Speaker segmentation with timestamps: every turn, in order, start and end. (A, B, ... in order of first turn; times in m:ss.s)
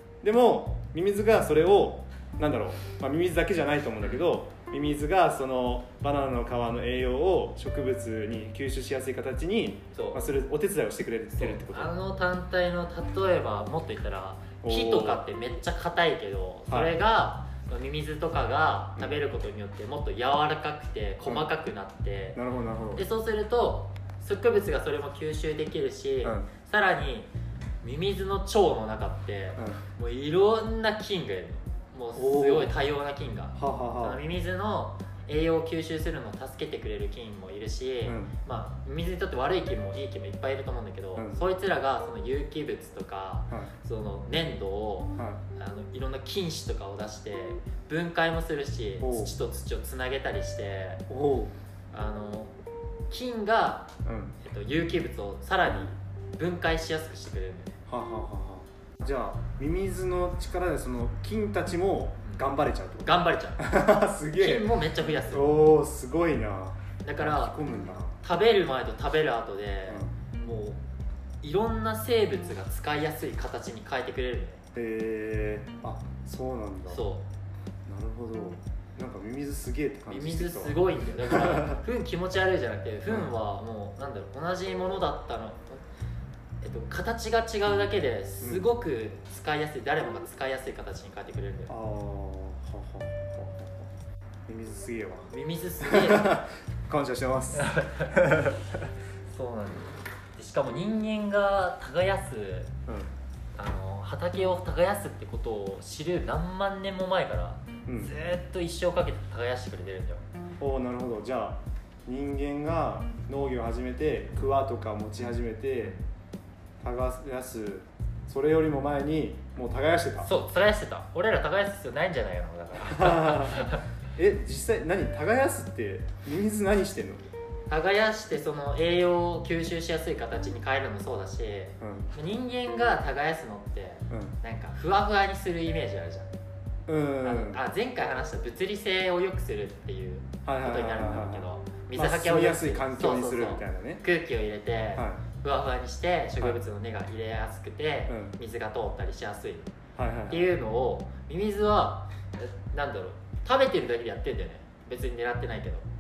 0:00.2-0:11.9 A
0:09.9-0:10.2 B
0:11.4-0:22.4 B
0:14.6-0:15.2 A
0:16.7-0:16.9 A
0:22.3-0:23.0 A
0:23.0-0:27.3 B
0:26.2-0:26.5 A
0:27.8-0:51.0 B
0:32.2-0:32.7 A
0:33.5-0:34.2 A
0:38.0-0:38.3 A
0:41.2-0:41.4 A
0:49.0-0:49.3 A
0:51.1-0:51.5 A
0:51.9-0:52.5 B
0:53.1-0:57.8 B
0:54.0-0:54.3 A
0:57.9-1:04.7 A
1:03.0-1:03.7 B
1:04.4-1:05.7 B
1:05.2-1:08.2 A
1:07.0-1:07.6 B
1:08.2-1:10.8 B
1:11.4-1:14.6 B
1:14.7-1:17.0 A
1:16.9-1:17.2 B
1:17.9-1:21.8 A
1:20.1-1:25.8 B
1:26.6-1:31.7 B
1:31.7-1:33.9 A
1:34.5-1:38.9 A
1:35.3-1:36.4 B
1:37.5-1:38.5 B
1:39.3-1:42.7 B
1:43.6-1:50.2 B
1:47.8-1:48.1 A
1:50.6-1:56.0 A
1:56.8-2:00.3 A
2:00.2-2:03.8 B
2:02.8-2:07.3 A
2:07.7-2:16.3 B
2:11.8-2:12.1 A
2:14.1-2:14.3 A
2:16.9-2:17.6 A
2:17.2-2:29.7 B
2:20.4-2:24.0 A
2:24.9-2:25.2 A
2:28.1-2:28.3 A
2:30.0-2:30.5 A
2:30.3-2:35.8 B